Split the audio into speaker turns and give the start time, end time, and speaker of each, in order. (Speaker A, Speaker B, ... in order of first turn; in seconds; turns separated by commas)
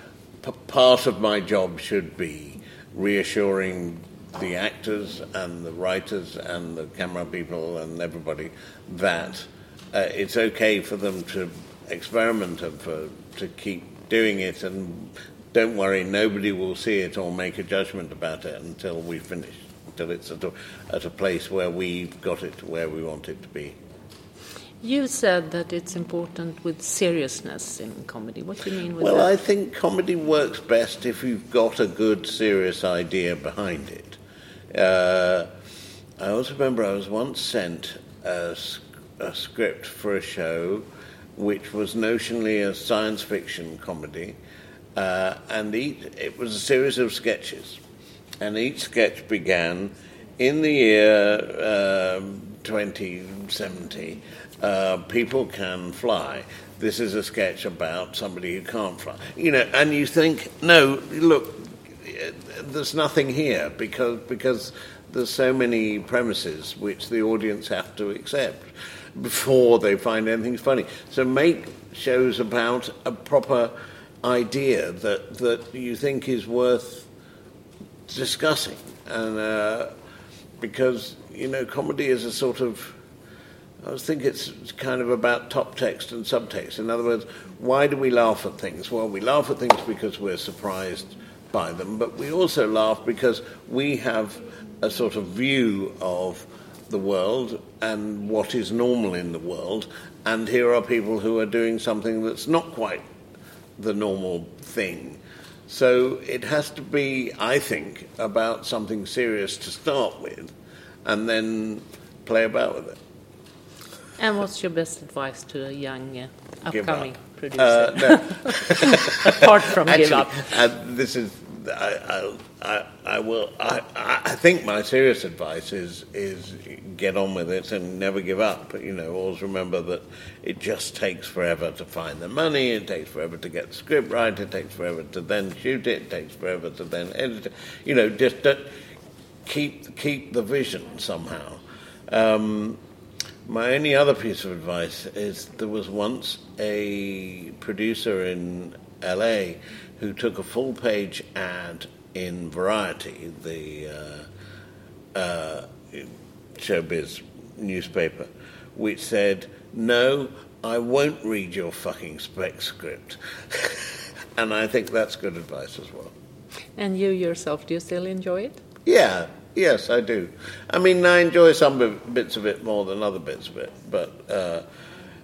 Speaker A: 0.4-23.8, Speaker B: 24.8-29.3, Speaker A: 29.0-34.2, Speaker A: 34.7-35.5, Speaker A: 36.2-44.4, Speaker A: 45.0-47.8, Speaker A: 48.4-77.1, Speaker A: 78.1-79.9, Speaker A: 80.6-83.0, Speaker A: 83.8-103.0, Speaker A: 103.8-110.5, Speaker A: 111.0-113.0, Speaker B: 114.2-120.5, Speaker A: 116.7-138.7, Speaker A: 139.4-142.8, Speaker A: 143.4-154.3, Speaker A: 155.1-166.1, Speaker B: 166.8-168.6, Speaker A: 168.8-174.6